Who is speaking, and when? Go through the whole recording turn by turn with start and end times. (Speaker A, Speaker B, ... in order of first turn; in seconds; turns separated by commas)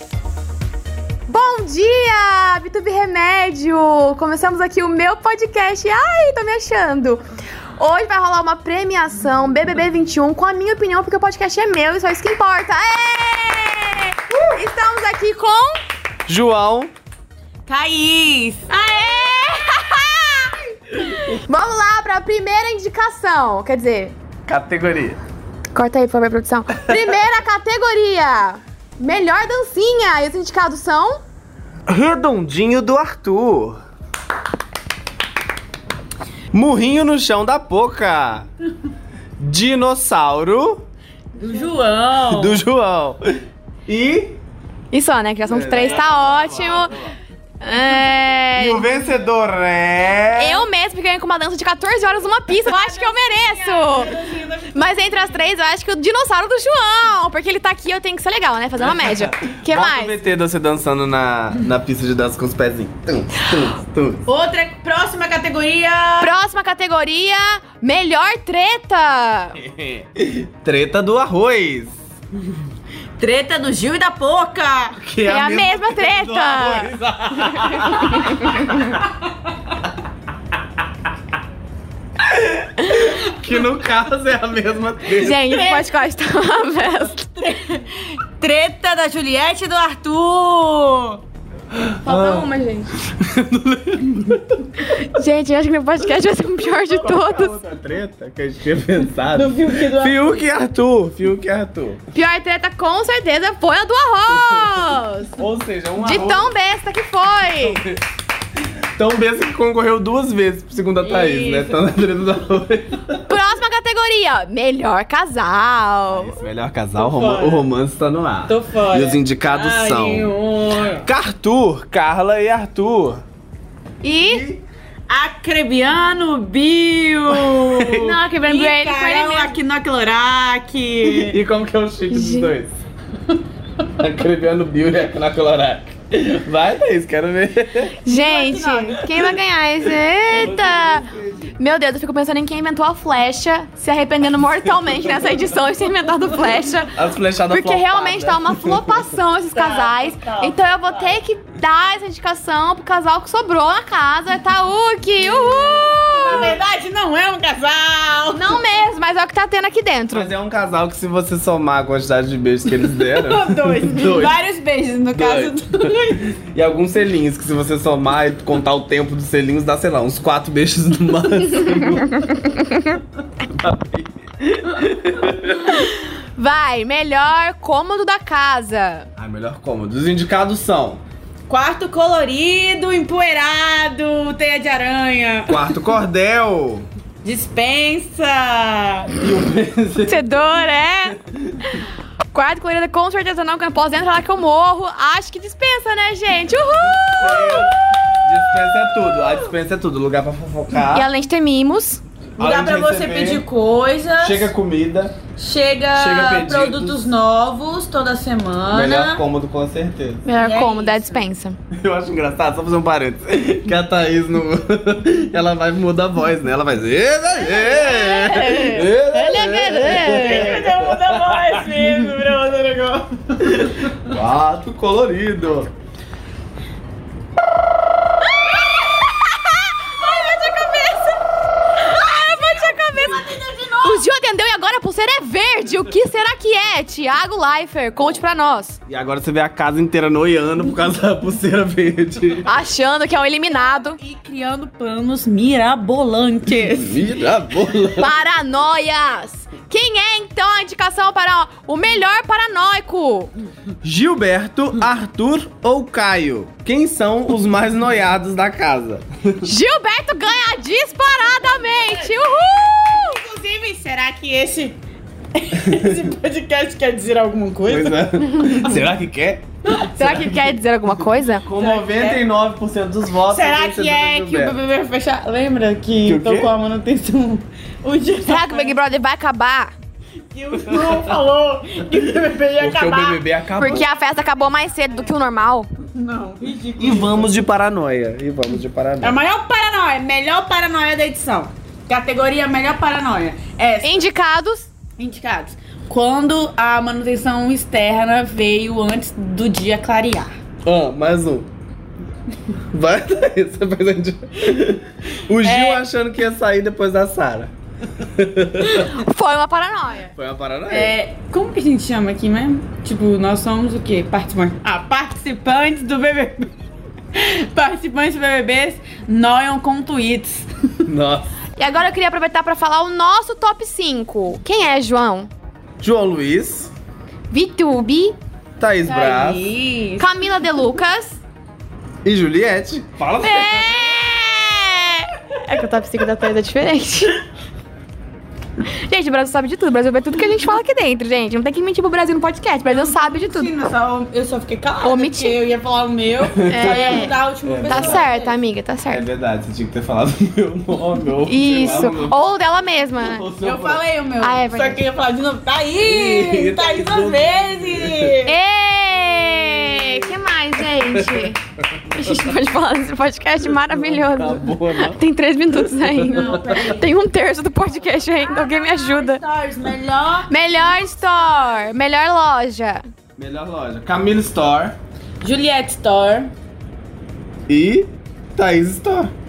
Speaker A: 1.3-7.2, Speaker A: 7.8-15.8, Speaker B: 16.3-16.9, Speaker C: 17.7-18.7, Speaker A: 18.7-24.1, Speaker B: 24.5-25.2, Speaker A: 25.7-31.2, Speaker B: 26.7-27.1, Speaker B: 31.9-33.8, Speaker B: 36.5-38.5, Speaker B: 39.4-40.8, Speaker C: 41.3-42.6, Speaker B: 42.3-43.2, Speaker B: 43.9-44.4, Speaker A: 44.9-47.1, Speaker B: 45.5-47.1, Speaker A: 47.6-48.9, Speaker B: 48.5-50.6, Speaker A: 50.4-54.1, Speaker C: 52.5-55.5, Speaker A: 54.7-60.2, Speaker B: 58.8-64.2, Speaker C: 64.2-66.4, Speaker A: 66.2-69.6, Speaker B: 69.6-72.0, Speaker C: 73.2-75.0, Speaker B: 75.0-78.8, Speaker A: 75.2-78.8, Speaker B: 82.2-85.4, Speaker A: 85.1-87.3, Speaker C: 85.3-86.0, Speaker C: 87.3-91.2, Speaker B: 91.7-94.8, Speaker A: 92.0-92.9, Speaker A: 94.8-97.6, Speaker B: 96.6-102.0, Speaker C: 99.3-100.4, Speaker A: 102.1-105.3, Speaker B: 104.3-106.5, Speaker A: 106.0-107.8, Speaker B: 107.5-108.0, Speaker B: 109.0-113.2, Speaker C: 111.0-111.8, Speaker A: 113.2-116.4, Speaker B: 116.1-120.3, Speaker C: 116.9-117.7, Speaker C: 118.5-121.1, Speaker B: 121.0-123.2, Speaker A: 124.0-124.5, Speaker B: 124.2-124.6, Speaker C: 125.1-131.4, Speaker B: 127.3-128.2, Speaker A: 128.0-129.6, Speaker B: 131.0-132.8, Speaker A: 132.1-132.5, Speaker B: 134.0-138.0, Speaker A: 138.0-147.0, Speaker C: 138.1-139.0, Speaker B: 140.2-141.5, Speaker B: 146.9-149.1, Speaker A: 147.5-156.5, Speaker C: 149.5-151.2, Speaker C: 156.1-158.7, Speaker A: 158.3-160.3, Speaker B: 160.1-164.4, Speaker C: 162.7-166.2, Speaker B: 165.1-165.6, Speaker B: 166.2-172.3, Speaker A: 171.8-173.0, Speaker B: 173.4-175.7, Speaker A: 175.6-179.1, Speaker B: 179.2-181.0, Speaker C: 181.5-185.9, Speaker B: 185.5-186.9, Speaker C: 187.2-189.1, Speaker B: 189.2-190.5, Speaker A: 190.0-191.2, Speaker B: 191.3-191.6, Speaker A: 192.3-197.7, Speaker B: 196.7-201.1, Speaker A: 200.9-202.0, Speaker B: 202.4-203.4, Speaker C: 202.4-204.5, Speaker B: 204.2-205.2, Speaker C: 205.3-209.2, Speaker B: 205.9-207.0, Speaker B: 208.7-210.2, Speaker A: 210.2-211.6, Speaker C: 210.3-211.2, Speaker B: 211.7-221.6, Speaker A: 217.4-220.6, Speaker C: 219.1-223.6, Speaker B: 224.0-225.7, Speaker C: 229.8-231.2, Speaker A: 231.8-233.2, Speaker C: 232.1-234.1, Speaker A: 233.8-238.8, Speaker B: 238.9-242.5, Speaker A: 242.4-244.0, Speaker C: 243.5-247.1, Speaker B: 246.7-248.1, Speaker A: 247.9-253.3, Speaker B: 253.8-259.5, Speaker A: 259.4-263.2, Speaker C: 261.4-262.2, Speaker C: 262.8-264.8, Speaker C: 265.3-268.7, Speaker B: 265.5-266.1, Speaker B: 267.6-270.5, Speaker A: 269.9-271.5, Speaker B: 271.4-274.6, Speaker C: 271.5-272.2, Speaker C: 273.2-278.8, Speaker B: 276.0-276.5, Speaker A: 278.2-279.7, Speaker C: 280.3-283.8, Speaker B: 280.7-281.1, Speaker B: 282.6-283.9, Speaker A: 283.5-285.7, Speaker C: 285.9-287.4, Speaker B: 286.8-289.1, Speaker C: 289.0-294.1, Speaker A: 293.8-294.7, Speaker C: 295.0-300.3, Speaker B: 300.6-301.5, Speaker B: 302.7-308.9, Speaker C: 305.4-305.9, Speaker A: 308.7-310.1, Speaker B: 310.1-310.9, Speaker C: 310.7-316.5, Speaker C: 317.1-320.8, Speaker B: 320.9-321.3, Speaker A: 321.6-325.3, Speaker B: 325.8-326.7, Speaker A: 327.3-328.2, Speaker B: 328.6-329.4, Speaker C: 328.8-330.1, Speaker A: 330.0-331.2, Speaker B: 332.0-333.9, Speaker A: 333.2-337.2, Speaker A: 338.6-343.5, Speaker C: 342.6-348.4, Speaker A: 344.8-345.4, Speaker B: 346.2-348.1, Speaker A: 346.5-347.1, Speaker A: 347.7-349.1, Speaker B: 348.9-352.2, Speaker A: 351.2-353.3, Speaker B: 353.0-353.8, Speaker C: 353.4-358.4, Speaker A: 354.2-354.8, Speaker B: 355.8-358.1, Speaker A: 358.2-361.4, Speaker B: 360.7-361.3, Speaker A: 361.9-369.2, Speaker B: 363.6-365.0, Speaker B: 365.5-366.8, Speaker C: 366.5-366.8, Speaker C: 368.0-370.3, Speaker A: 370.3-372.8, Speaker B: 373.2-374.8, Speaker C: 375.2-376.3, Speaker B: 377.5-379.1